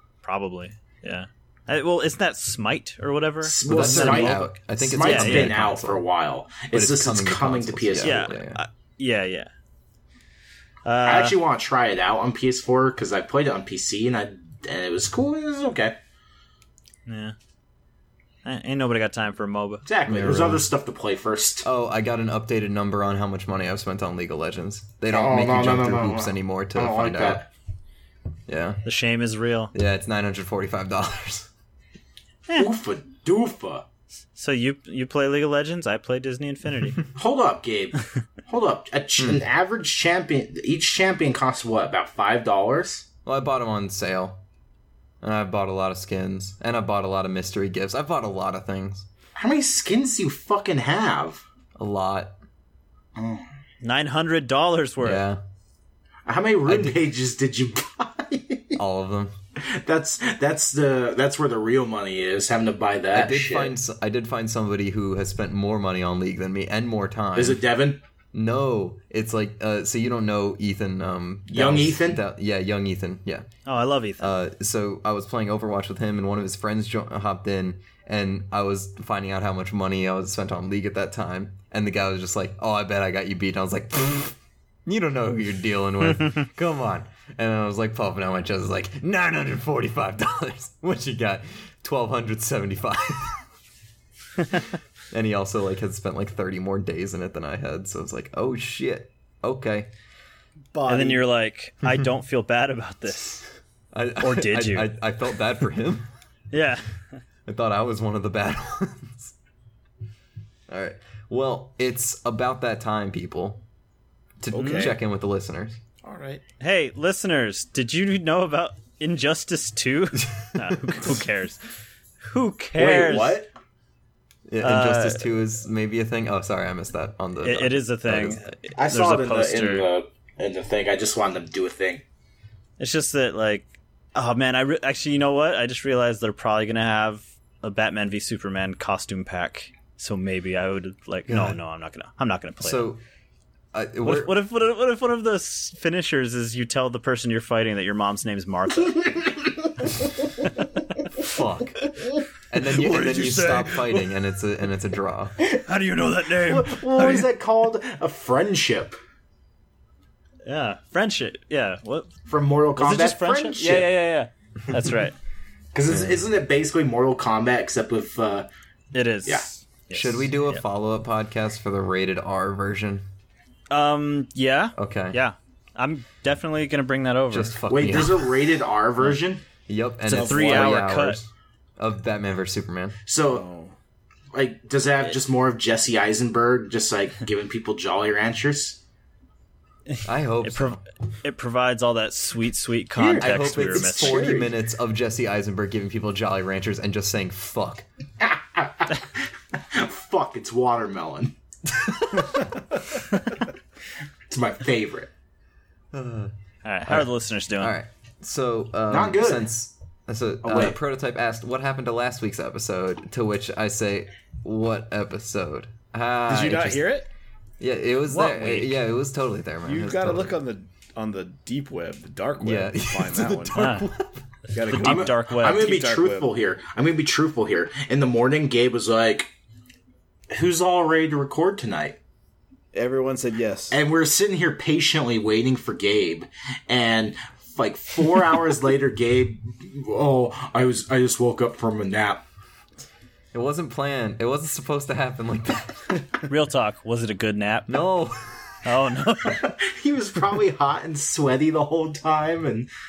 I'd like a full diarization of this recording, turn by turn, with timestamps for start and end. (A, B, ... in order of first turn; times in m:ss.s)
0:00.2-0:05.5 A
0:03.4-0:08.3 B
0:03.6-0:06.0 C
0:06.7-0:08.6 C
0:08.0-0:09.5 A
0:10.8-0:11.4 A
0:11.0-0:16.0 B
0:17.0-0:17.3 A
0:18.4-0:19.8 A
0:19.8-0:21.6 B
0:20.0-0:20.6 C
0:21.6-0:27.4 C
0:25.1-0:27.5 B
0:28.5-0:28.8 C
0:28.8-0:29.7 A
0:29.7-0:31.5 C
0:32.5-0:33.8 B
0:34.3-0:37.0 A
0:37.1-0:43.0 B
0:39.2-0:39.4 C
0:43.2-0:44.4 C
0:45.2-0:49.1 C
0:49.4-0:51.4 B
0:51.8-0:52.4 C
0:53.2-0:53.5 B
0:53.8-0:55.2 A
0:55.0-0:55.4 C
0:56.2-0:58.8 B
0:56.7-0:56.9 C
0:58.8-0:59.3 C
0:59.6-1:03.7 B
1:03.1-1:07.6 C
1:07.3-1:08.0 B
1:08.3-1:13.5 C
1:11.5-1:12.2 B
1:13.6-1:14.3 A
1:14.2-1:33.4 C
1:35.1-1:39.9 C
1:40.7-1:41.3 D
1:40.8-1:43.4 A
1:43.9-1:46.1 C
1:44.2-1:44.9 A
1:46.5-1:47.2 A
1:47.4-1:49.3 C
1:50.7-1:53.6 C
1:54.4-1:55.8 C
1:54.5-1:55.0 D
1:54.6-1:54.9 A
1:56.0-1:56.4 D
1:56.6-2:01.6 A
2:02.2-2:03.4 A
2:02.8-2:03.5 B
2:04.5-2:08.6 C
2:04.6-2:05.2 A
2:07.4-2:09.9 A
2:08.7-2:12.0 B
2:12.8-2:22.9 A
2:21.3-2:21.6 C
2:22.6-2:23.0 C
2:23.7-2:24.4 C
2:24.0-2:29.3 A
2:30.4-2:30.7 A
2:31.2-2:31.9 C
2:32.5-2:35.4 C
2:32.6-2:34.0 A
2:35.5-2:37.3 A
2:36.4-2:39.0 B
2:40.4-2:42.1 A
2:42.3-2:43.9 B
2:42.8-2:45.1 A
2:45.7-2:48.5 B
2:45.9-2:46.2 C
2:48.9-2:50.6 A
2:49.9-2:53.0 C
2:53.7-2:57.6 A
2:54.8-2:55.2 C
2:57.3-2:58.3 C
2:57.7-2:59.4 B
2:59.7-3:03.0 C
3:00.1-3:01.2 A
3:00.1-3:00.7 D
3:03.1-3:03.4 B
3:03.3-3:03.7 D
3:04.3-3:08.8 B
3:09.9-3:14.3 A
3:10.0-3:10.8 C
3:13.0-3:14.5 B
3:13.2-3:17.8 C
3:18.2-3:21.3 B
3:24.3-3:25.1 B
3:25.9-3:26.3 C
3:26.6-3:27.7 A
3:26.8-3:36.9 C
3:28.9-3:29.5 B
3:30.4-3:30.8 B
3:36.3-3:37.1 D
3:37.6-3:40.4 C
3:38.1-3:38.8 A
3:39.6-3:43.8 D
3:42.4-3:44.2 C
3:43.5-3:43.9 A
3:44.5-3:46.3 D
3:44.7-3:45.7 A
3:44.7-3:49.3 B
3:50.3-3:52.0 B
3:52.7-3:53.8 D
3:53.7-4:02.2 B
4:03.3-4:06.2 C
4:06.2-4:07.8 A
4:07.7-4:08.6 C
4:08.6-4:09.4 A
4:09.2-4:12.7 B